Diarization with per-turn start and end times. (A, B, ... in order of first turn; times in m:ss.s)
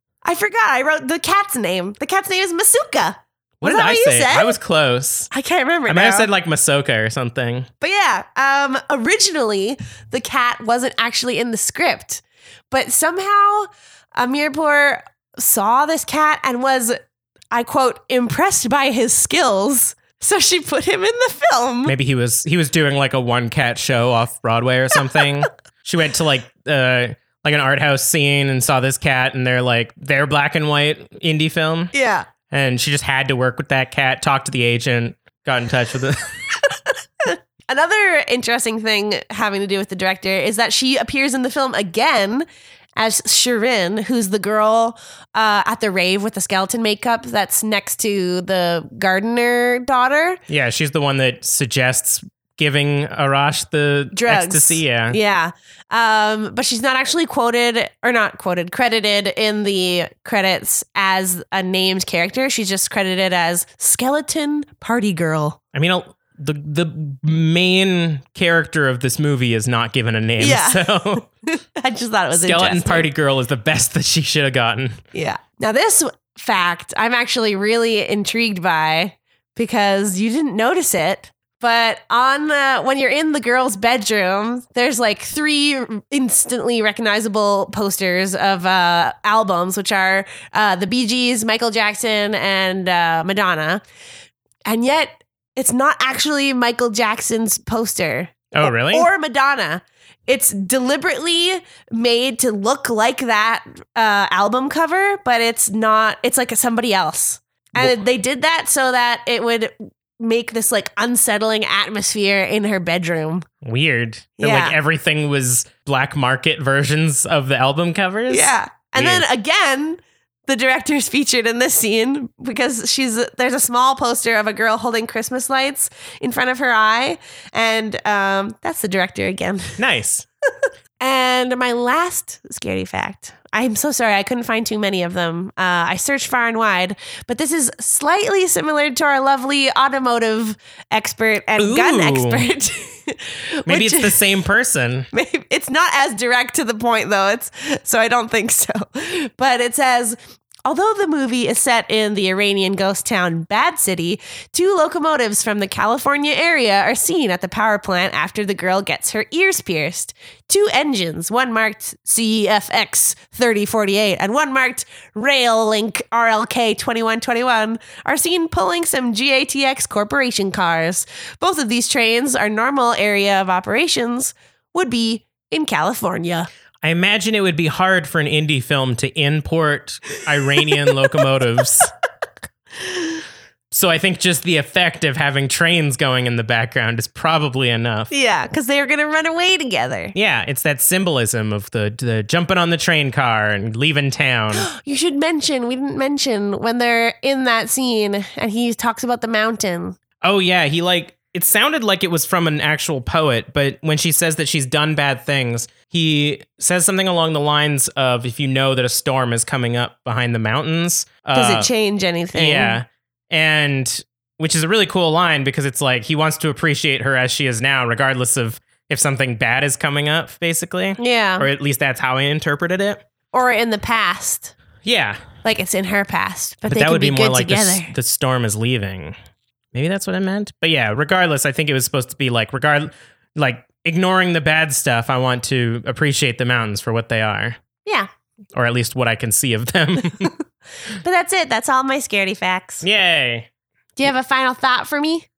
0:00.2-0:04.6 A
0:03.6-0:05.3 B
0:05.3-0:06.3 A
0:05.9-0:07.7 B
0:07.8-0:17.0 A
0:17.5-0:21.9 A
0:21.8-0:31.9 B
0:31.9-0:32.3 A
0:32.5-0:36.4 B
0:36.7-0:50.4 A
0:50.5-0:55.2 B
0:54.1-1:05.6 A
1:05.7-1:11.2 B
1:10.4-1:13.1 A
1:12.4-1:15.0 B
1:15.1-1:33.8 A
1:34.6-1:53.5 A
1:38.5-1:39.1 B
1:53.6-1:59.2 B
1:54.4-1:54.8 A
1:58.3-2:09.8 A
2:09.8-2:10.2 B
2:11.0-2:24.3 A
2:21.6-2:22.4 B
2:23.6-2:25.1 B
2:25.1-2:56.5 A
2:56.8-3:01.9 B
3:02.8-3:03.2 A
3:03.7-3:08.1 B
3:08.1-3:10.1 A
3:10.1-3:14.7 B
3:14.5-3:20.0 A
3:20.2-3:31.7 B
3:31.3-3:32.8 A
3:32.3-3:43.0 B
3:41.0-3:41.5 A
3:43.3-3:44.5 A
3:44.8-3:45.2 B
3:45.4-3:47.9 A
3:46.7-3:49.1 B
3:49.7-3:57.6 B
3:58.6-4:00.3 B
4:01.0-4:02.8 A
4:02.8-4:03.5 B
4:04.0-4:05.2 A